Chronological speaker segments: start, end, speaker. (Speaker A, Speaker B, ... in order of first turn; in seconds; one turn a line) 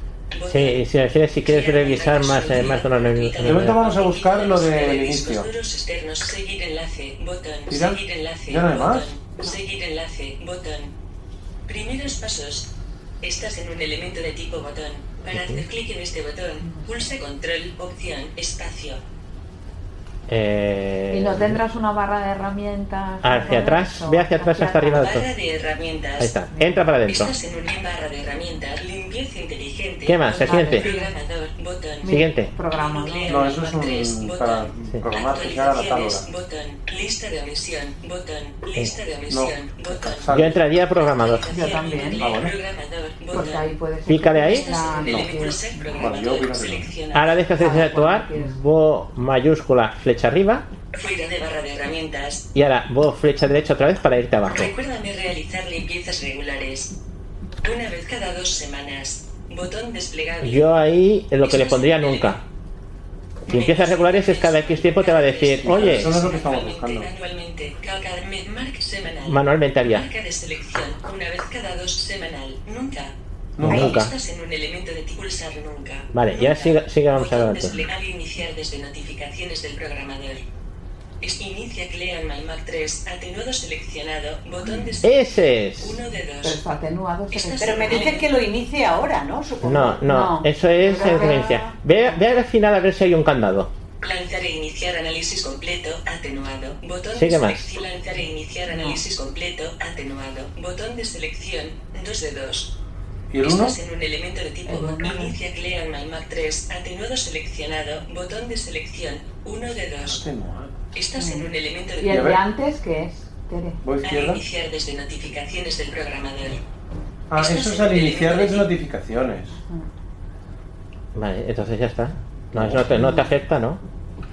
Speaker A: 0.3-0.8
Speaker B: 0.5-3.8
Speaker A: 1.4-10.9
Speaker C: 3.4-5.5
Speaker C: 7.7-9.1
Speaker A: 11.7-12.7
Speaker A: 13.2-19.0
Speaker B: 15.3-15.6
Speaker B: 20.3-21.6
Speaker D: 21.1-25.0
Speaker B: 23.2-25.3
Speaker A: 24.9-26.3
Speaker B: 26.2-27.3
Speaker D: 26.5-26.9
Speaker A: 27.1-32.2
Speaker B: 30.1-30.9
Speaker D: 30.3-31.1
Speaker D: 32.0-33.5
Speaker B: 32.0-32.5
Speaker A: 32.7-40.3
Speaker C: 33.3-36.2
Speaker C: 39.3-40.7
Speaker B: 40.3-41.5
Speaker A: 41.0-43.7
Speaker D: 41.5-42.2
Speaker C: 42.2-42.5
Speaker D: 43.3-46.1
Speaker B: 44.1-44.7
Speaker A: 44.4-47.4
Speaker C: 45.0-46.9
Speaker B: 47.1-50.6
Speaker D: 47.6-48.5
Speaker A: 50.9-52.4
Speaker B: 52.5-54.7
Speaker A: 54.5-56.9
Speaker A: 57.6-60.7
Speaker B: 60.4-62.4
Speaker A: 61.4-62.4
Speaker A: 63.5-73.1
Speaker B: 63.5-66.2
Speaker C: 65.6-67.1
Speaker B: 69.3-70.1
Speaker C: 73.6-74.0
Speaker B: 73.6-74.1
Speaker A: 73.6-80.4
Speaker B: 76.1-77.8
Speaker A: 81.2-85.2
Speaker B: 85.0-86.0
Speaker A: 85.8-86.6
Speaker D: 86.4-88.2
Speaker A: 87.3-88.3
Speaker E: 87.6-90.0
Speaker B: 89.6-93.7
Speaker D: 90.0-91.5
Speaker E: 90.8-91.7
Speaker A: 94.0-102.7
Speaker B: 97.1-97.7
Speaker D: 98.7-99.0
Speaker C: 103.3-103.8
Speaker A: 103.4-110.2
Speaker D: 104.7-105.3
Speaker C: 110.0-110.8
Speaker A: 110.9-112.3
Speaker D: 111.2-111.5
Speaker D: 112.0-113.8
Speaker C: 112.0-112.4
Speaker C: 113.8-114.4
Speaker A: 114.0-116.6
Speaker C: 117.3-119.6
Speaker A: 117.4-118.7
Speaker B: 121.1-123.8
Speaker C: 122.6-122.8